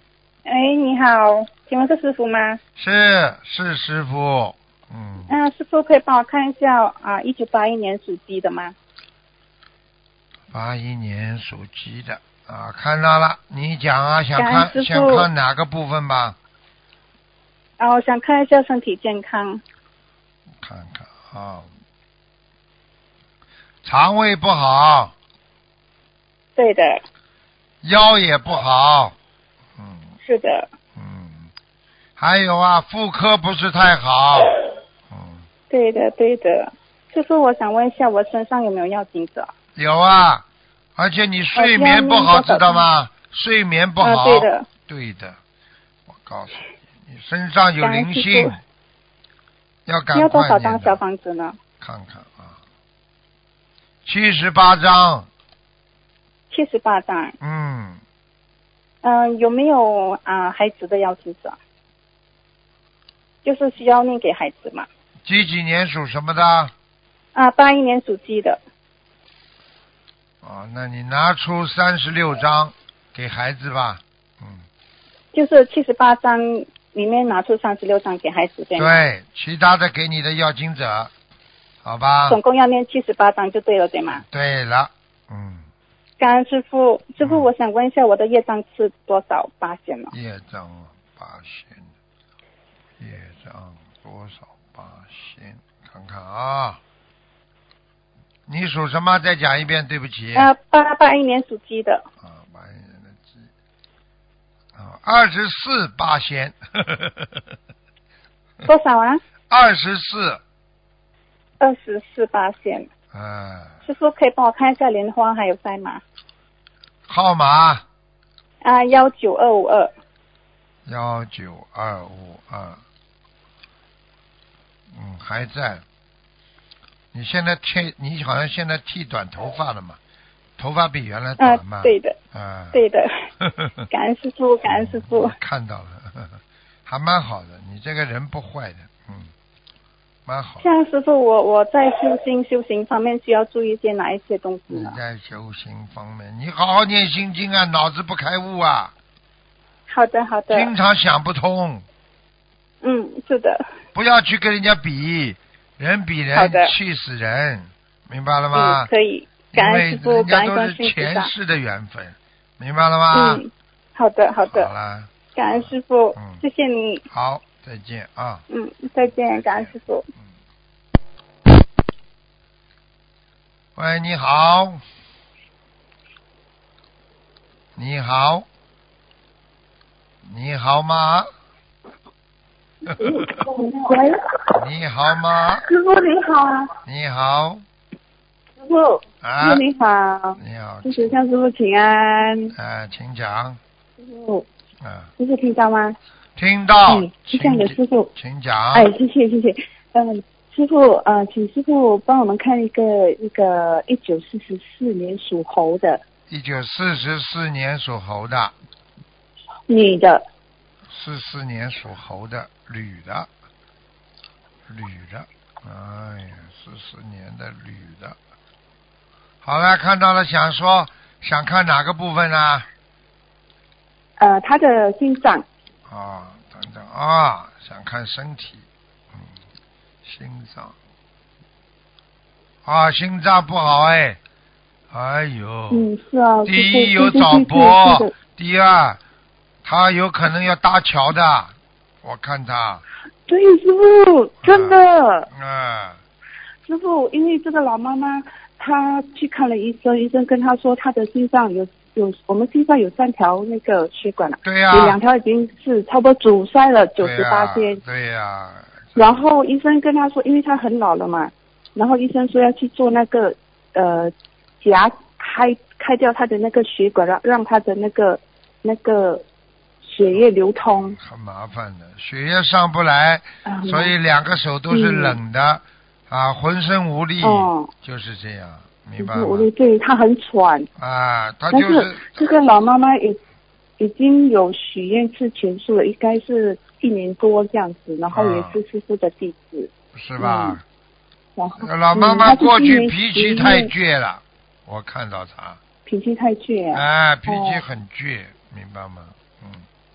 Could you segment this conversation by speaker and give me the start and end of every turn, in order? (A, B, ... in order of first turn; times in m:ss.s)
0:00.4-0:02.6 A
0:02.8-0:05.3 B
0:05.3-0:08.7 A
0:10.5-0:16.4 B
0:14.4-0:15.3 A
0:17.8-0:19.6 A
0:20.6-0:21.7 B
0:23.8-0:25.1 B
0:26.6-0:27.0 A
0:27.8-0:29.2 B
0:29.8-0:30.1 B
0:30.2-0:30.7 A
0:31.0-0:31.5 B
0:32.2-0:34.6 B
0:35.1-0:35.5 B
0:35.7-0:39.5 A
0:39.8-0:40.4 B
0:41.0-0:45.4 B
0:41.6-0:42.8 A
0:44.0-0:44.7 A
0:46.1-0:48.6 B
0:47.8-0:48.6 A
0:49.8-0:51.0 B
0:50.1-0:51.6 A
0:51.8-0:52.6 B
0:54.0-0:55.3 B
0:56.5-0:57.4 A
0:57.4-0:58.0 B
0:59.0-1:01.6 A
1:03.4-1:04.9 A
1:05.2-1:06.7 B
1:07.3-1:08.6 A
1:10.4-1:14.6 B
1:15.3-1:19.0 A
1:18.8-1:21.1 B
1:21.8-1:22.4 B
1:22.3-1:24.2 A
1:24.2-1:25.7 B
1:26.2-1:30.1 A
1:27.2-1:27.5 B
1:30.1-1:31.9 B
1:33.0-1:36.8 B
1:38.5-1:40.5 B
1:40.3-1:42.0 A
1:42.2-1:43.5 B
1:44.7-1:47.4 B
1:48.6-1:49.2 A
1:49.5-1:50.4 B
1:51.6-1:52.9 A
1:53.1-1:53.8 B
1:53.8-1:56.0 A
1:57.1-1:57.8 B
1:58.6-1:59.9 A
2:00.8-2:02.8 B
2:04.9-2:05.8 B
2:07.1-2:10.0 B
2:10.6-2:12.8 B
2:11.4-2:12.2 A
2:12.7-2:13.1 A
2:13.4-2:13.8 B
2:13.9-2:15.3 A
2:14.6-2:19.3 B
2:20.2-2:20.7 B
2:20.6-2:25.0 A
2:24.7-2:28.9 B
2:29.9-2:30.7 A
2:30.5-2:31.8 B
2:32.8-2:33.6 A
2:33.9-2:38.9 B
2:36.3-2:36.7 A
2:38.5-2:41.3 A
2:39.5-2:43.4 B
2:43.1-2:44.7 A
2:44.4-2:46.4 B
2:45.3-2:47.0 A
2:47.1-2:48.4 B
2:48.5-2:50.0 A
2:49.3-2:49.7 B
2:53.7-2:54.8 B
2:57.8-2:58.5 B
3:00.2-3:01.3 B
3:03.0-3:04.2 C
3:04.5-3:05.6 B
3:05.6-3:06.7 C
3:06.8-3:07.6 B
3:08.6-3:12.5 C
3:09.2-3:09.6 B
3:10.4-3:11.2 B
3:12.5-3:13.6 B
3:14.0-3:14.4 C
3:14.8-3:15.1 B
3:15.2-3:16.0 C
3:16.4-3:18.9 B
3:16.9-3:18.1 C
3:18.7-3:26.0 C
3:26.3-3:28.5 B
3:29.7-3:30.2 C
3:30.9-3:33.3 B
3:34.7-3:38.2 B
3:39.4-3:42.7 B
3:44.2-3:45.4 C
3:45.9-3:49.3 B
3:50.0-3:50.7 B
3:52.6-3:54.2 B
3:54.9-3:55.9 B
3:55.7-3:58.1 C
3:56.4-3:59.0 B
3:59.6-4:02.8 B
4:03.3-4:05.3 C
4:04.4-4:04.8 B
4:05.3-4:06.0 B
4:06.6-4:17.8 C
4:14.4-4:15.0 B
4:17.0-4:19.2 B
4:19.0-4:29.2 C
4:29.8-4:31.0 C
4:30.1-4:39.5 B
4:33.4-4:33.9 C
4:34.7-4:35.2 C
4:37.2-4:37.7 C
4:39.0-4:40.7 C
4:40.8-4:42.3 B
4:41.5-4:43.2 C
4:43.8-4:50.6 C
4:48.1-4:48.6 B
4:49.9-4:50.6 B
4:51.4-4:53.7 C
4:51.6-4:55.6 B
4:55.8-4:57.6 C
4:56.7-4:59.6 B